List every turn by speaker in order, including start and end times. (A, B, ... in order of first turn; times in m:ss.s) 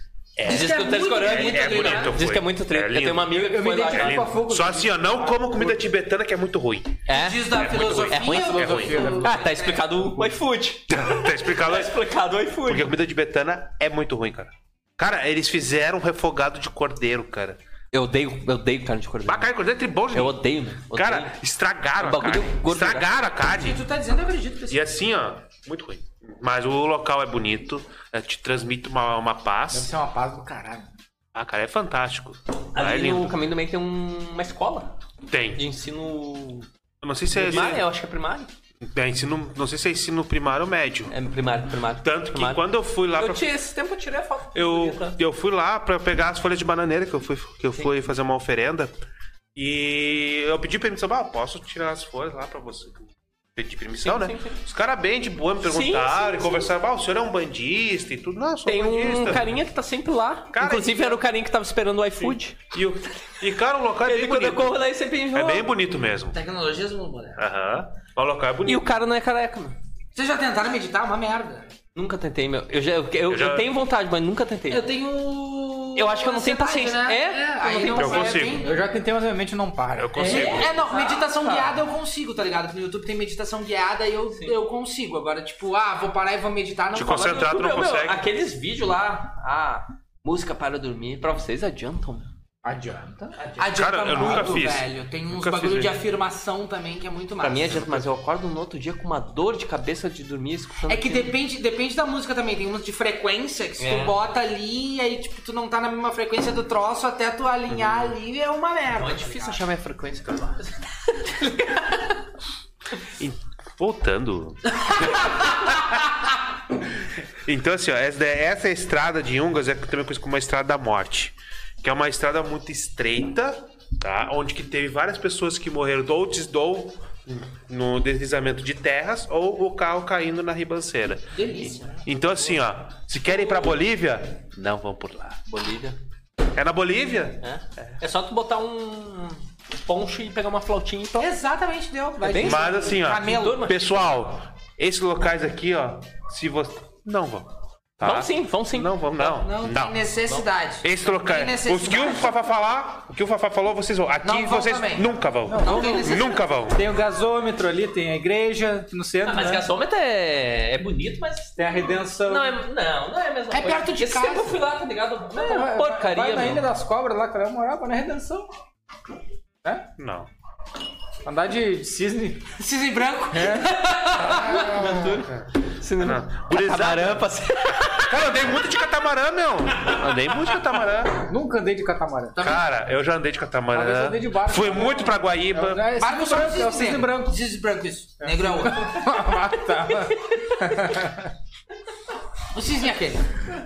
0:00.4-0:09.2 A
0:00.4-0:02.2 B
0:00.4-0:04.3 C
0:03.3-0:05.8 D
0:07.1-0:12.9 C
0:07.1-0:09.9 B
0:08.3-0:09.4 D
0:10.9-0:12.0 A
0:12.6-0:17.6 A
0:17.9-0:19.5 C
0:19.2-0:20.4 A
0:20.1-0:21.3 C
0:20.9-0:23.8 A
0:22.0-0:23.1 C
0:23.4-0:24.8 B
0:24.7-0:29.9 A
0:29.7-0:30.9 D
0:31.3-0:33.3 A
0:32.7-0:35.0 C
0:35.3-0:35.6 A
0:35.6-0:36.6 C
0:37.0-0:37.9 A
0:37.3-0:38.5 C
0:38.8-0:41.1 A
0:41.1-0:45.2 C
0:42.0-0:43.5 A
0:44.6-0:48.9 A
0:49.6-0:59.6 A
0:54.0-0:54.6 C
0:55.6-0:56.6 C
0:58.6-1:02.7 C
1:00.5-1:01.2 A
1:02.2-1:04.8 A
1:04.0-1:05.7 C
1:05.3-1:06.4 A
1:06.3-1:07.4 B
1:07.4-1:08.9 A
1:08.6-1:09.8 C
1:10.1-1:11.7 B
1:11.9-1:14.9 C
1:13.3-1:13.7 A
1:14.7-1:18.8 B
1:16.0-1:18.3 C
1:17.9-1:18.6 A
1:18.6-1:20.2 D
1:20.0-1:20.9 A
1:20.2-1:21.8 C
1:20.2-1:27.5 B
1:26.9-1:28.2 A
1:27.0-1:32.3 C
1:32.6-1:33.4 D
1:33.4-1:33.6 C
1:33.6-1:37.8 B
1:33.7-1:36.0 A
1:37.4-1:41.3 C
1:37.7-1:38.1 A
1:40.9-1:49.6 B
1:43.8-1:44.2 C
1:47.7-1:48.2 A
1:48.9-1:52.2 C
1:53.1-1:55.5 A
1:57.4-2:15.5 A
2:11.3-2:12.0 B
2:13.3-2:13.8 C
2:15.5-2:16.0 C
2:16.5-2:17.8 A
2:17.4-2:21.3 C
2:21.2-2:23.7 B
2:22.2-2:23.9 C
2:22.4-2:30.0 A
2:28.0-2:29.0 C
2:29.2-2:32.3 B
2:30.8-2:36.8 A
2:34.2-2:36.5 B
2:35.5-2:36.1 D
2:36.7-2:39.6 D
2:39.2-2:46.7 C
2:41.6-2:42.6 D
2:43.5-2:44.6 B
2:45.3-2:48.5 D
2:50.0-2:50.3 A
2:51.2-2:52.5 D
2:52.6-2:54.8 B
2:53.3-2:53.8 D
2:54.2-2:58.2 C
2:54.3-2:57.3 A
2:57.9-3:01.2 A
3:01.2-3:02.4 D
3:02.4-3:02.6 B
3:02.4-3:05.8 A
3:03.7-3:07.3 D
3:06.0-3:09.0 B
3:08.2-3:11.3 D
3:12.5-3:13.3 B